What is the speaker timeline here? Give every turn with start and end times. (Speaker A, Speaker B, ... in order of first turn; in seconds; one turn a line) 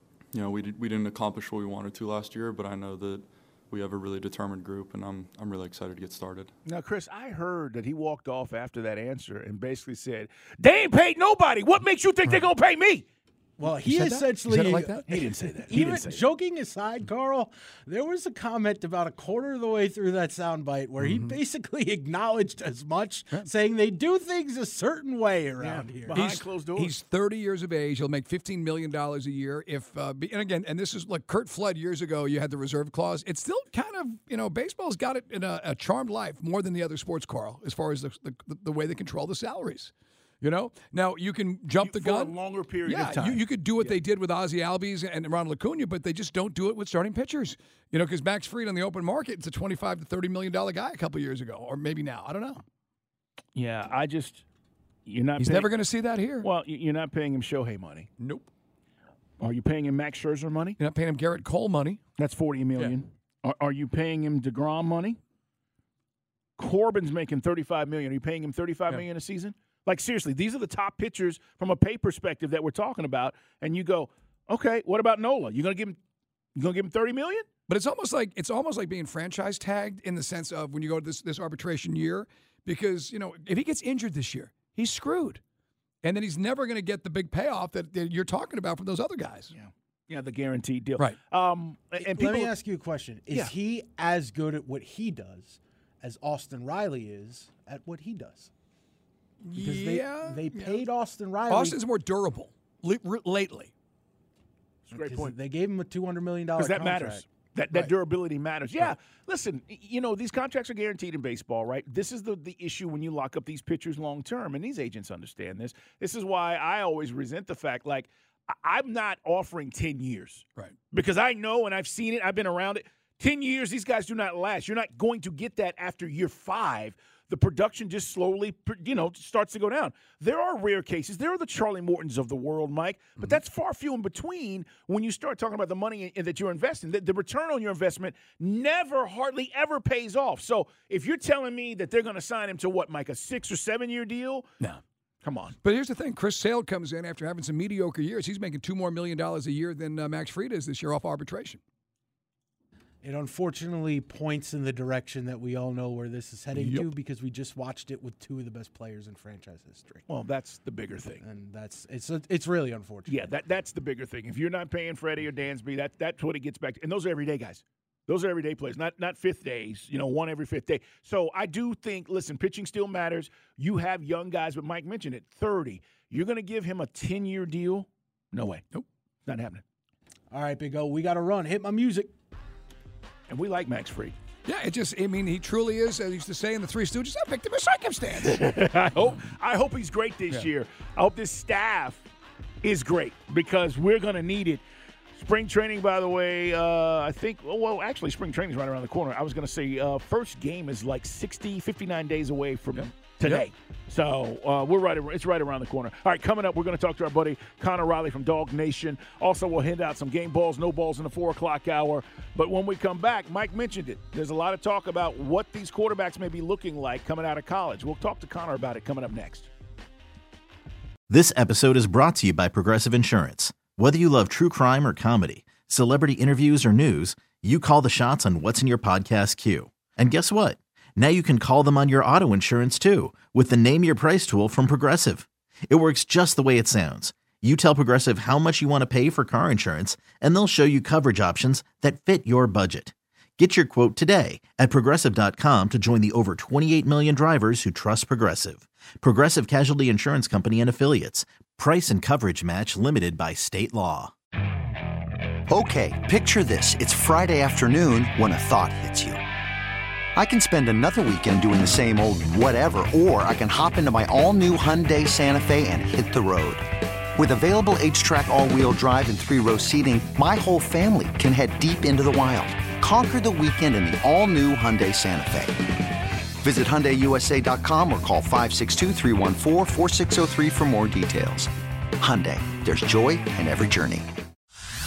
Speaker A: 0.3-6.5
Speaker B: 6.7-13.0
Speaker C: 13.6-26.2
Speaker D: 13.6-15.3
Speaker B: 15.1-16.3
Speaker D: 21.0-21.4
Speaker B: 25.6-27.0
Speaker D: 26.1-52.6
Speaker B: 41.8-44.0
Speaker B: 53.5-54.4
Speaker B: 55.0-58.1
Speaker D: 55.4-56.5
Speaker D: 58.2-58.5
Speaker B: 59.4-60.8
Speaker D: 60.8-62.0
Speaker B: 62.2-65.2
Speaker B: 66.6-76.0
Speaker B: 76.5-77.5
Speaker D: 77.7-85.4
Speaker D: 86.0-89.5
Speaker B: 89.5-92.5
Speaker C: 92.0-98.5
Speaker D: 99.4-100.8
Speaker C: 99.5-101.8
Speaker D: 101.5-103.7
Speaker B: 104.9-105.3
Speaker C: 104.9-107.2
Speaker B: 106.5-144.5
Speaker B: 145.2-145.6
Speaker D: 145.6-151.6
Speaker C: 153.0-160.0
Speaker D: 156.5-156.9
Speaker B: 160.1-161.2
Speaker C: 161.2-163.3
Speaker B: 163.1-178.6
Speaker B: 179.2-179.6
Speaker C: 180.3-182.1
Speaker B: 183.3-184.1
Speaker D: 184.4-188.6
Speaker B: 188.1-192.0
Speaker B: 192.6-194.6
Speaker B: 195.1-219.5
Speaker D: 202.8-203.4
Speaker E: 221.1-254.1
Speaker F: 255.5-259.2
Speaker F: 260.1-275.6
Speaker F: 276.4-284.1